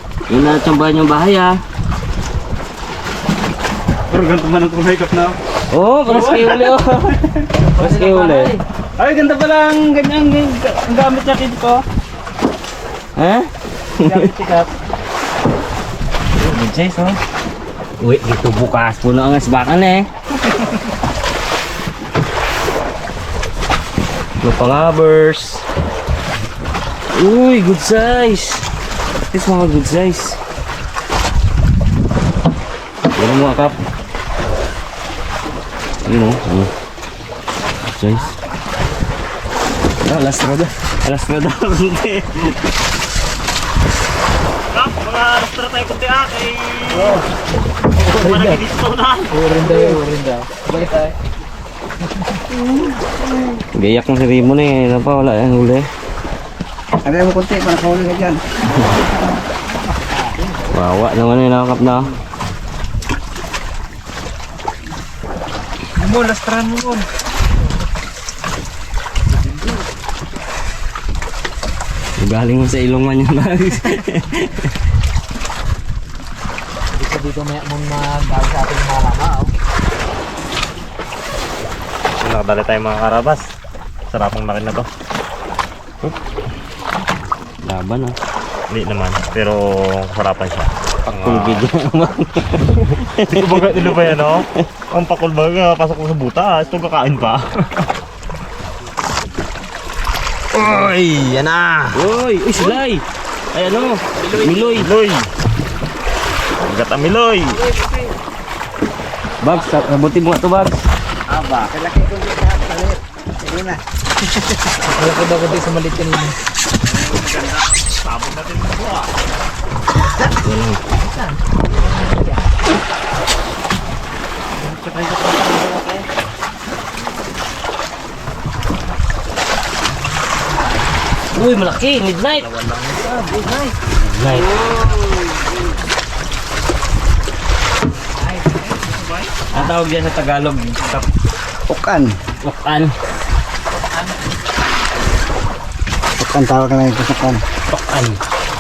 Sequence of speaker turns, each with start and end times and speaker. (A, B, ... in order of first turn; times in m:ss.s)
0:00.3-0:01.6 A
0:04.1-0:05.4 B
0:05.7-0:07.2 A
0:06.1-0:07.4 B
0:07.6-0:08.6 C
0:07.8-0:08.5 A
0:09.0-0:11.8 B
0:13.2-0:14.3 A
0:14.0-0:14.7 B
0:16.4-0:17.2 A
0:18.0-0:20.1 A
0:24.4-0:25.7 A
0:27.1-0:28.6 A
0:29.3-0:30.4 A
0:33.2-0:33.8 A
0:36.0-0:36.7 A
0:37.9-0:38.4 A
0:40.0-0:42.6 A
0:44.7-0:47.2 D
0:48.0-0:49.4 D
0:48.1-0:48.4 C
0:49.4-0:50.4 B
0:49.4-0:51.2 C
0:53.7-0:55.9 A
0:57.0-0:58.4 E
1:00.1-1:00.8 C
1:00.7-1:02.1 A
1:06.0-1:07.0 B
1:12.2-1:14.7 A
1:17.0-1:19.5 C
1:22.2-1:23.5 D
1:24.1-1:24.9 D
1:27.6-1:28.2 A
1:28.7-1:31.7 D
1:31.2-1:34.0 A
1:32.8-1:37.9 D
1:40.5-1:42.0 D
1:41.9-1:44.9 A
1:44.2-1:44.7 C
1:44.7-1:45.3 D
1:46.6-1:47.6 D
1:47.7-1:48.1 C
1:49.4-1:50.9 A
1:51.3-1:51.7 D
1:51.7-1:53.8 E
1:54.7-1:56.4 C
1:56.8-1:59.1 D
2:00.4-2:00.8 A
2:01.1-2:02.5 C
2:04.7-2:06.0 D
2:11.3-2:12.5 A
2:12.6-2:13.0 D
2:13.9-2:14.5 A
2:17.9-2:19.7 C
2:19.5-2:21.1 A
2:21.7-2:22.2 E
2:22.4-2:23.0 A
2:23.7-2:24.2 C
2:26.2-2:27.4 E
2:27.7-2:28.2 A